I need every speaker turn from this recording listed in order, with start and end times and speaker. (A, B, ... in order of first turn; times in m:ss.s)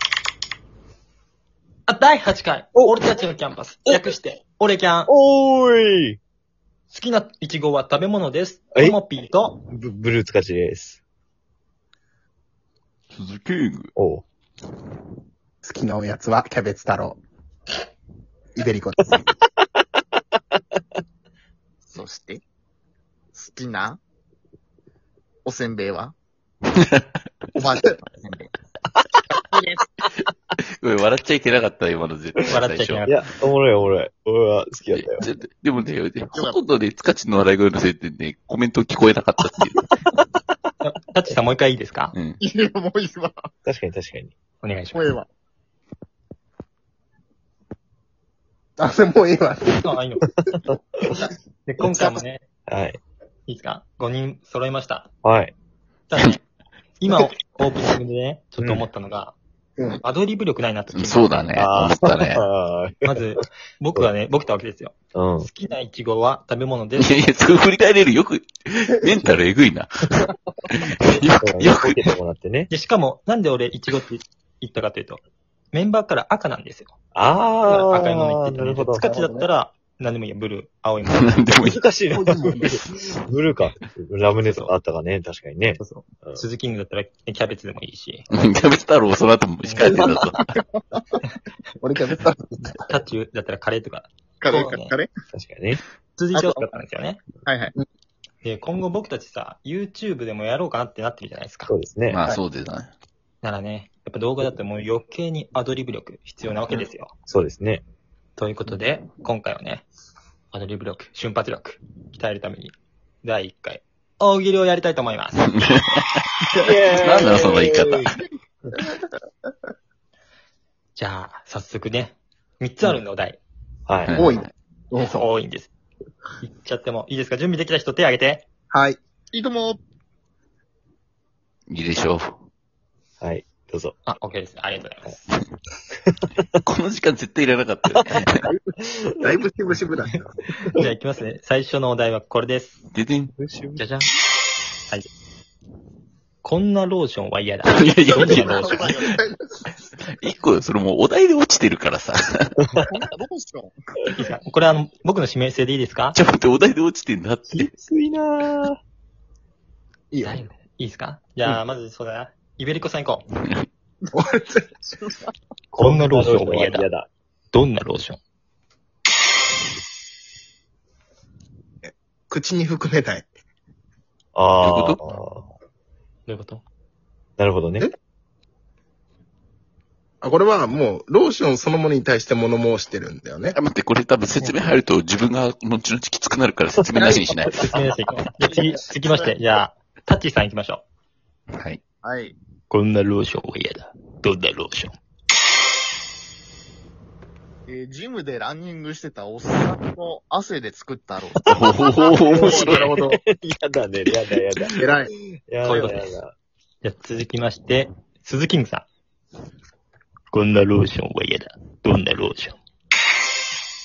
0:01.9-0:05.1 A
0:02.8-0:03.0 B
0:05.1-0:06.2 B
0:06.9-0:09.6 A
0:09.7-0:11.0 B
0:13.1-0:13.9 C
0:14.0-0:14.2 B
0:15.6-0:17.2 D
0:18.6-0:19.2 D
0:21.8-0:22.4 E
0:23.3-0:24.0 E
0:25.4-0:26.1 E
0:26.7-0:27.1 C
0:27.6-0:28.5 E
0:29.3-0:29.8 E
0:30.8-0:33.2 C
0:32.5-0:33.1 A
0:33.0-0:35.2 B
0:34.9-0:39.9 C
0:36.3-0:36.6 E
0:40.8-0:42.1 A
0:42.1-0:42.4 C
0:42.4-0:43.5 E
0:43.6-0:44.3 B
0:44.6-0:45.1 A
0:44.9-0:45.3 E
0:48.8-0:49.9 D
0:49.8-0:50.2 A
0:51.6-0:52.4 A
0:51.9-0:52.2 E
0:52.7-0:53.0 B
0:53.5-0:55.1 A
0:55.2-0:55.5 B
0:56.1-0:56.4 A
0:57.0-0:59.4 A
0:58.6-0:58.8 B
1:00.0-1:01.7 A
1:00.9-1:02.4 C
1:01.6-1:03.3 B
1:03.0-1:07.1 A
1:05.1-1:05.5 B
1:07.0-1:12.0 C
1:11.4-1:12.7 B
1:12.7-1:16.9 A
1:17.1-1:19.5 B
1:17.6-1:21.4 A
1:21.0-1:21.8 C
1:21.6-1:26.4 B
1:22.1-1:22.8 D
1:25.8-1:28.3 A
1:28.3-1:30.5 C
1:29.6-1:30.3 A
1:30.5-1:31.2 E
1:31.8-1:32.8 D
1:32.9-1:34.9 A
1:34.4-1:35.1 E
1:35.3-1:35.8 B
1:36.2-1:37.2 A
1:36.3-1:36.6 E
1:37.4-1:37.7 E
1:38.4-1:41.7 A
1:41.7-1:42.2 B
1:42.1-1:42.9 C
1:43.4-1:47.1 A
1:47.3-1:47.8 B
1:48.4-1:49.8 A
1:50.5-1:55.5 A
1:55.6-1:58.1 C
1:56.6-1:58.2 B
2:01.0-2:03.4 A
2:03.9-2:04.2 B
2:04.1-2:04.5 C
2:04.1-2:05.2 D
2:05.0-2:05.7 A
2:06.4-2:08.4 A
2:08.7-2:09.0 D
2:09.3-2:09.8 E
2:11.7-2:12.4 C
2:13.2-2:14.0 B
2:14.0-2:15.2 A
2:16.6-2:18.4 C
2:17.9-2:19.3 B
2:19.2-2:20.3 D
2:20.7-2:22.8 A
2:22.9-2:23.3 C
2:23.4-2:23.8 B
2:23.8-2:24.1 A
2:26.4-2:28.9 A
2:27.7-2:29.0 C
2:28.1-2:29.3 E
2:30.1-2:32.5 C
2:32.9-2:33.7 E
2:34.1-2:36.2 A
2:36.1-2:37.7 C
2:37.5-2:38.8 B
2:40.1-2:40.4 D
2:40.2-2:43.2 A
2:44.1-2:44.7 D
2:44.8-2:45.3 E
2:45.7-2:47.1 B
2:45.8-2:46.8 A
2:47.5-2:48.2 A
2:51.8-2:53.3 D
2:54.3-2:55.5 B
2:54.6-2:55.2 C
2:56.3-2:56.6 A
2:57.4-2:57.9 B
3:00.2-3:03.6 D
3:03.5-3:07.7 C
3:07.5-3:10.8 A
3:09.0-3:09.3 E
3:11.5-3:11.8 C
3:12.0-3:12.4 E
3:12.7-3:14.9 A
3:17.7-3:21.5 E
3:21.5-3:22.9 C
3:21.5-3:26.3 B
3:22.3-3:23.2 D
3:24.8-3:25.1 D
3:25.6-3:26.1 A
3:26.8-3:28.9 A
3:30.3-3:32.6 A